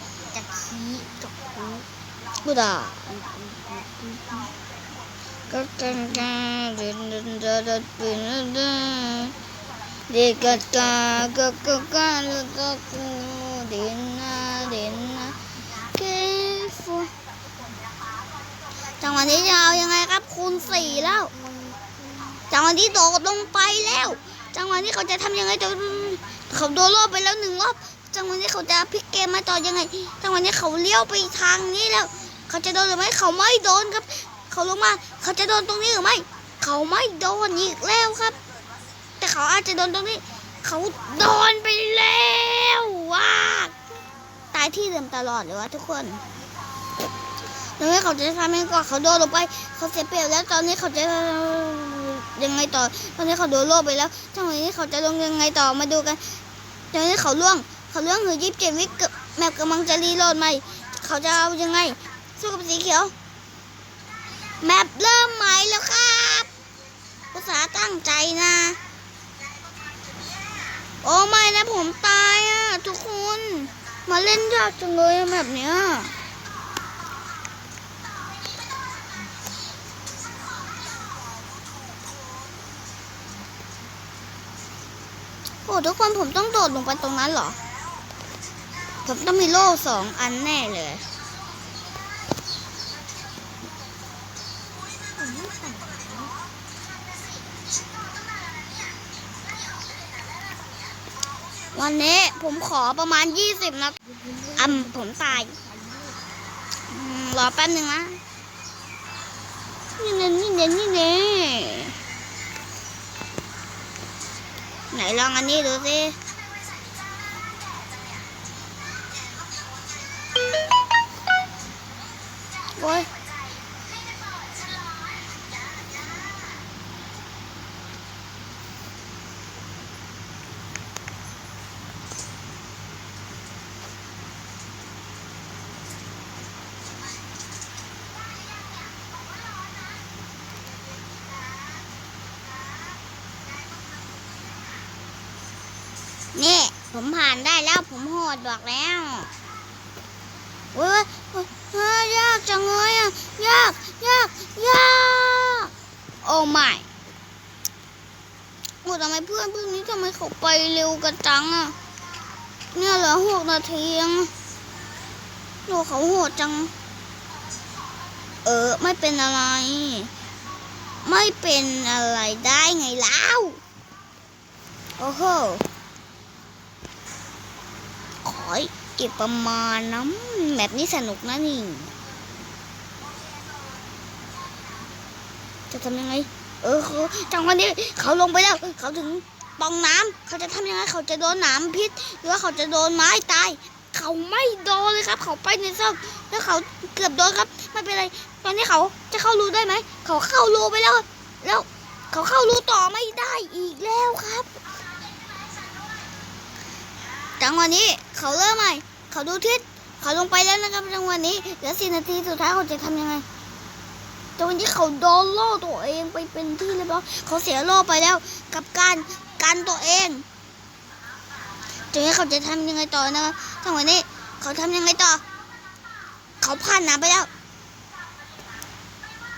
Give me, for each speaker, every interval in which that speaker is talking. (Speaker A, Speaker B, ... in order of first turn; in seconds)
Speaker A: 0.3-1.8, 3.1-4.5, 95.1-96.3, 104.3-104.9, 105.5-106.2
Speaker B: 2.4-3.0, 5.5-9.3, 10.1-15.4, 15.9-17.1, 19.0-21.3, 22.5-38.4, 39.2-43.7, 44.5-46.2, 47.8-56.2, 56.9-63.1, 64.6-66.5, 67.3-68.8, 71.0-76.1, 85.7-87.6, 89.0-91.0, 101.7-104.0, 104.5-105.5, 106.9-108.2, 110.0-112.0, 114.9-116.2, 122.8-123.1, 146.3-149.3, 150.7-155.7, 156.2-156.8, 158.8-161.7, 162.7-164.3, 165.7-166.7, 168.4-170.1, 171.0-173.6, 175.0-175.6, 178.2-181.9, 185.7-204.5, 207.4-213.2, 214.4-220.2, 221.9-225.2, 226.4-227.3